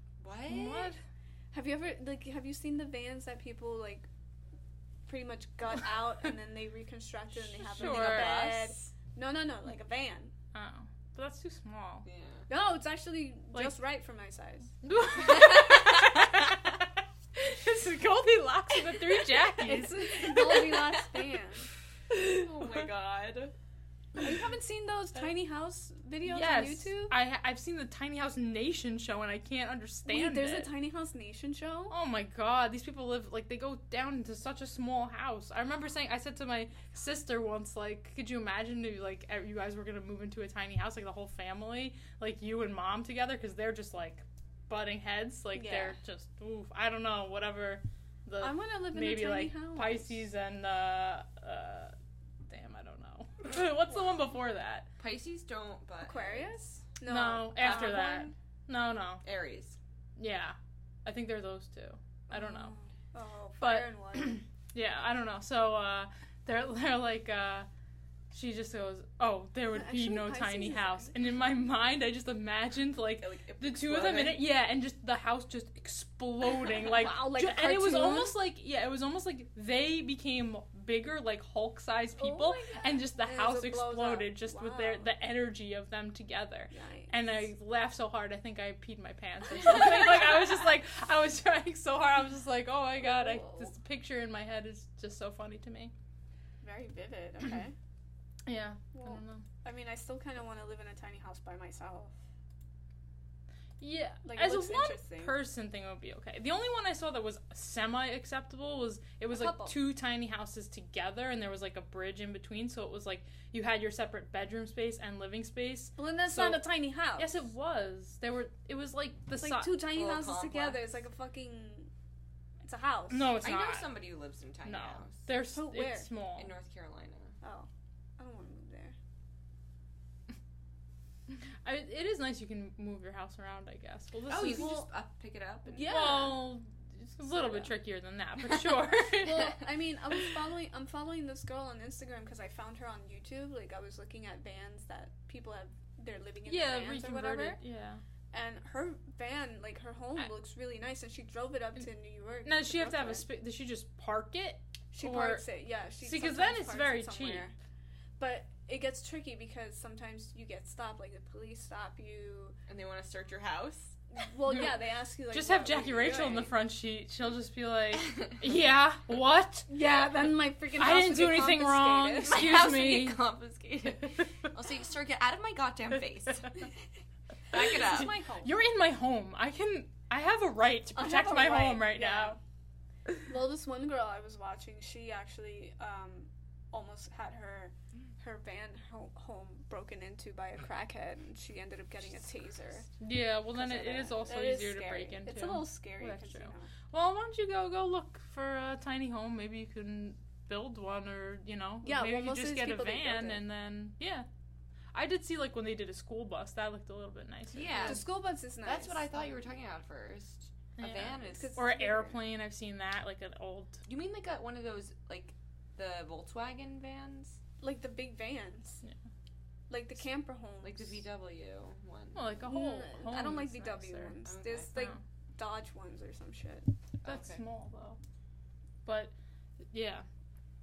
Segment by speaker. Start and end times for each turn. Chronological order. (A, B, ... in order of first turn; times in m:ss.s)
0:00.2-0:00.9 A
0:00.5-0:01.0 B
0:01.5-0:04.1 C
0:05.1-0:10.3 C
0:07.6-0:08.7 B
0:07.8-0:08.5 A
0:10.5-0:12.1 B
0:12.1-0:12.5 A
0:12.5-0:14.8 C
0:14.8-0:16.8 B
0:15.3-0:16.2 A
0:17.4-0:20.7 B
0:19.5-0:21.7 C
0:22.1-0:23.5 A
0:22.4-0:22.7 B
0:24.2-0:27.2 C
0:26.3-0:30.7 B
0:30.1-0:31.9 C
0:31.9-0:51.9 B
0:45.6-0:46.0 C
0:48.4-0:50.2 C
0:52.5-0:54.9 B
0:55.0-0:56.6 A
0:56.0-0:58.1 C
0:57.1-0:59.2 B
0:57.6-0:58.3 A
0:59.2-0:59.8 A
1:00.2-1:02.7 B
1:02.3-1:04.4 C
1:03.6-1:07.7 B
1:08.3-1:35.9 B
1:09.7-1:11.1 C
1:13.2-1:14.4 A
1:16.8-1:18.3 C
1:22.2-1:22.8 A
1:23.2-1:25.1 C
1:26.7-1:27.5 C
1:33.0-1:33.7 C
1:36.6-1:37.8 C
1:38.5-1:39.4 B
1:38.9-1:42.1 C
1:43.8-1:56.6 B
1:44.2-1:45.4 C
1:49.3-1:49.8 C
1:56.0-1:57.4 C
1:57.2-1:59.8 B
1:59.4-2:01.9 C
1:59.9-2:01.0 A
2:02.6-2:03.4 C
2:03.1-2:03.9 B
2:03.4-2:05.2 A
2:04.6-2:06.5 B
2:05.5-2:06.1 C
2:06.4-2:07.4 A
2:07.4-2:09.0 C
2:11.6-2:14.9 B
2:14.3-2:15.9 A
2:15.7-2:16.4 C
2:15.9-2:19.6 B
2:19.1-2:27.6 C
2:26.5-2:28.0 B
2:28.3-2:33.3 C
2:32.5-2:35.4 B
2:34.9-2:37.5 C
2:36.0-2:37.5 B
2:38.2-2:42.6 C
2:42.7-2:44.0 A
2:44.2-2:46.5 C
2:45.3-2:49.7 B
2:48.0-2:48.3 A
2:49.7-2:52.2 C
2:50.8-2:53.2 B
2:52.0-2:56.7 A
2:57.5-2:58.1 A
2:57.5-2:58.5 C
2:57.9-3:02.4 B
3:01.0-3:02.4 C
3:03.3-3:12.9 C
3:13.0-3:24.3 B
3:13.6-3:16.7 C
3:21.8-3:23.4 C
3:24.9-3:28.0 B
3:27.5-3:28.0 A
3:27.8-3:29.1 C
3:28.6-3:31.5 A
3:30.8-3:33.8 B
3:31.3-3:32.2 C
3:33.9-3:37.4 A
3:37.6-3:38.8 C
3:39.7-3:40.9 C
3:40.6-3:42.2 A
3:42.2-3:44.2 B
3:42.4-3:46.7 C
3:44.2-3:44.7 A
3:44.7-3:45.0 B
3:47.0-3:47.4 A
3:47.0-3:48.0 B
3:48.9-3:49.1 B
3:49.7-3:50.1 B